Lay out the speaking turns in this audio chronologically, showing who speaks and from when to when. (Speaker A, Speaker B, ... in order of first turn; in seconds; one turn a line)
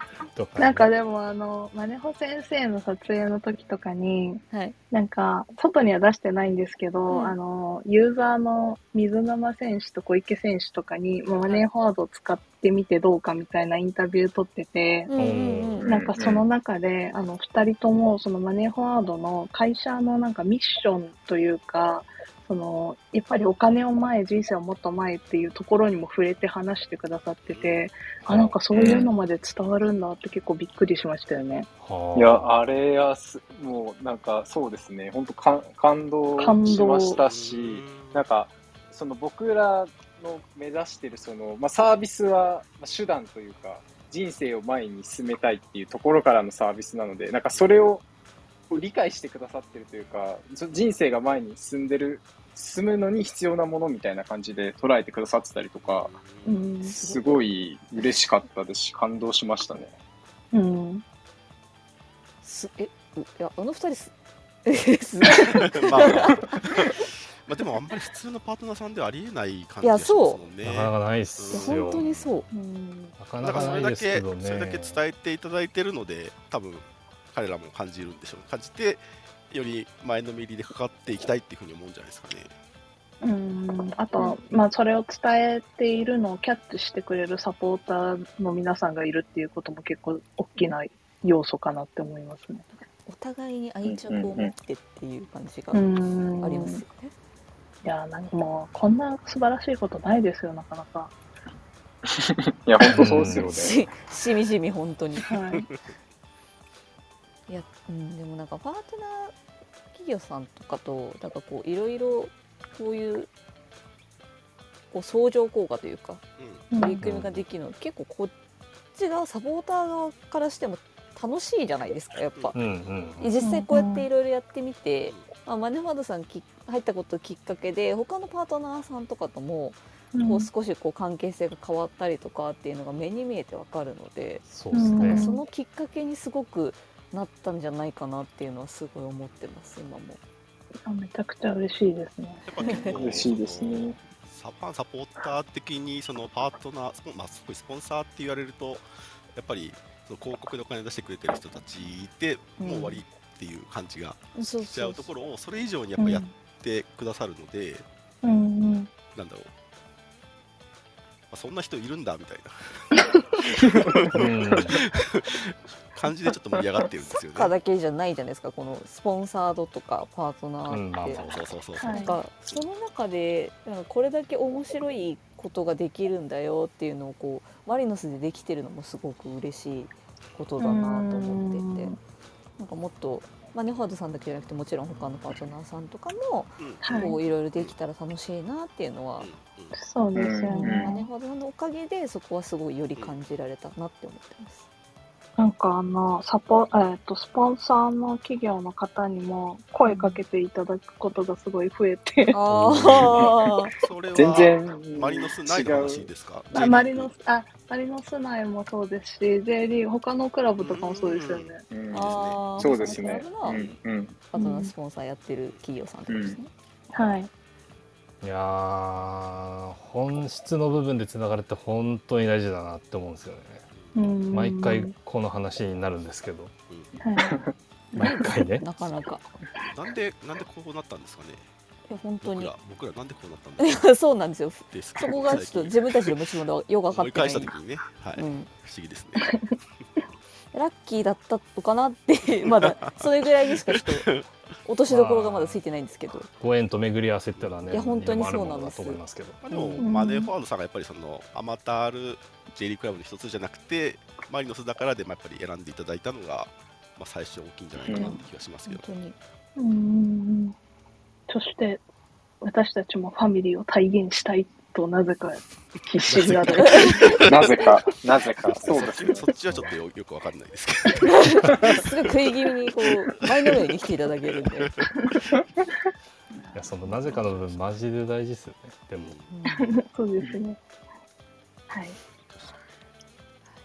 Speaker A: 0.3-0.9
Speaker B: 0.6-15.1
Speaker C: 4.5-4.8
Speaker C: 7.1-7.4
Speaker C: 15.1-15.9
Speaker A: 15.1-15.9
Speaker D: 15.8-16.4
Speaker B: 15.9-31.7
Speaker E: 27.4-27.8
Speaker A: 28.2-28.6
Speaker D: 28.7-29.1
Speaker A: 31.8-32.5
Speaker D: 32.1-48.0
Speaker B: 36.4-37.2
Speaker E: 37.1-38.2
Speaker E: 47.5-47.8
Speaker D: 48.7-56.1
Speaker E: 55.8-56.7
Speaker B: 56.5-56.9
Speaker C: 56.8-57.4
Speaker D: 56.9-59.9
Speaker B: 60.5-61.0
Speaker C: 62.4-64.1
Speaker C: 64.6-66.8
Speaker E: 65.4-72.1
Speaker C: 69.8-70.4
Speaker A: 70.6-72.5
Speaker C: 71.5-72.9
Speaker B: 72.5-73.1
Speaker A: 73.2-75.0
Speaker E: 73.4-82.5
Speaker B: 83.2-92.6
Speaker C: 92.7-97.1
Speaker D: 93.8-94.5
Speaker B: 95.7-96.8
Speaker B: 97.8-101.1
Speaker D: 102.1-103.8
Speaker A: 102.9-103.7
Speaker C: 103.2-105.3
Speaker B: 105.2-105.7
Speaker C: 107.5-109.3
Speaker C: 109.9-113.3
Speaker C: 114.9-116.2
Speaker E: 116.4-116.7
Speaker B: 116.7-117.0
Speaker C: 116.7-118.3
Speaker A: 117.0-117.4
Speaker C: 118.9-122.6
Speaker E: 122.3-123.3
Speaker A: 122.5-123.3
Speaker C: 123.2-134.4
Speaker B: 123.4-124.1
Speaker B: 130.1-130.5
Speaker A: 134.5-135.3
Speaker B: 134.7-135.4
Speaker C: 135.0-140.2
Speaker B: 140.9-142.9
Speaker E: 142.4-157.9
Speaker D: 142.9-144.0
Speaker C: 152.6-153.0
Speaker C: 154.4-155.1
Speaker B: 156.0-156.3
Speaker B: 158.2-158.9
Speaker E: 159.1-159.5
Speaker E: 161.3-167.5
Speaker A: 164.1-164.8
Speaker C: 167.1-171.2
Speaker A: 170.7-171.5
Speaker E: 171.1-172.6
Speaker B: 171.8-172.2
Speaker C: 171.8-181.9
Speaker B: 180.6-182.0
Speaker C: 182.6-189.3
Speaker E: 186.6-187.7
Speaker B: 186.8-187.2
Speaker E: 189.2-189.8
Speaker B: 189.7-191.1
Speaker D: 190.1-190.9
Speaker C: 190.5-194.7
Speaker B: 195.4-202.4
Speaker C: 199.8-200.2
Speaker C: 202.3-203.7
Speaker A: 202.5-203.3
Speaker E: 203.8-207.1
Speaker D: 204.1-206.1
Speaker B: 206.5-211.6
Speaker E: 210.6-213.8
Speaker D: 211.7-214.2
Speaker C: 211.9-213.6
Speaker C: 214.3-216.5
Speaker B: 214.3-214.7
Speaker D: 216.1-216.4
Speaker B: 216.9-217.3
Speaker A: 218.2-223.7
Speaker B: 223.9-224.9
Speaker A: 224.3-226.5
Speaker B: 227.0-227.4
Speaker C: 227.9-229.2
Speaker A: 227.9-228.7
Speaker E: 229.6-231.4
Speaker C: 231.9-232.5
Speaker E: 232.2-233.9
Speaker C: 233.6-237.6
Speaker E: 234.7-236.2
Speaker E: 236.9-239.5
Speaker C: 238.1-238.5
Speaker C: 240.5-244.1
Speaker E: 242.4-244.3
Speaker C: 244.6-246.3
Speaker A: 244.9-245.6
Speaker A: 246.4-249.4
Speaker E: 247.3-248.2
Speaker C: 247.7-249.9
Speaker E: 249.4-258.9
Speaker B: 249.8-250.3
Speaker D: 257.9-258.1
Speaker C: 257.9-259.2
Speaker B: 259.6-260.6
Speaker B: 261.3-261.8
Speaker B: 262.4-267.2
Speaker E: 266.1-267.6
Speaker C: 266.5-267.0
Speaker D: 267.2-269.2
Speaker E: 268.4-271.8
Speaker A: 269.5-269.7
Speaker C: 271.1-274.7
Speaker E: 273.2-273.6
Speaker E: 274.6-275.3
Speaker A: 276.6-279.2
Speaker E: 277.1-277.7
Speaker E: 279.0-279.3
Speaker C: 279.3-279.7
Speaker B: 279.6-280.6
Speaker B: 281.7-282.0
Speaker E: 282.2-282.5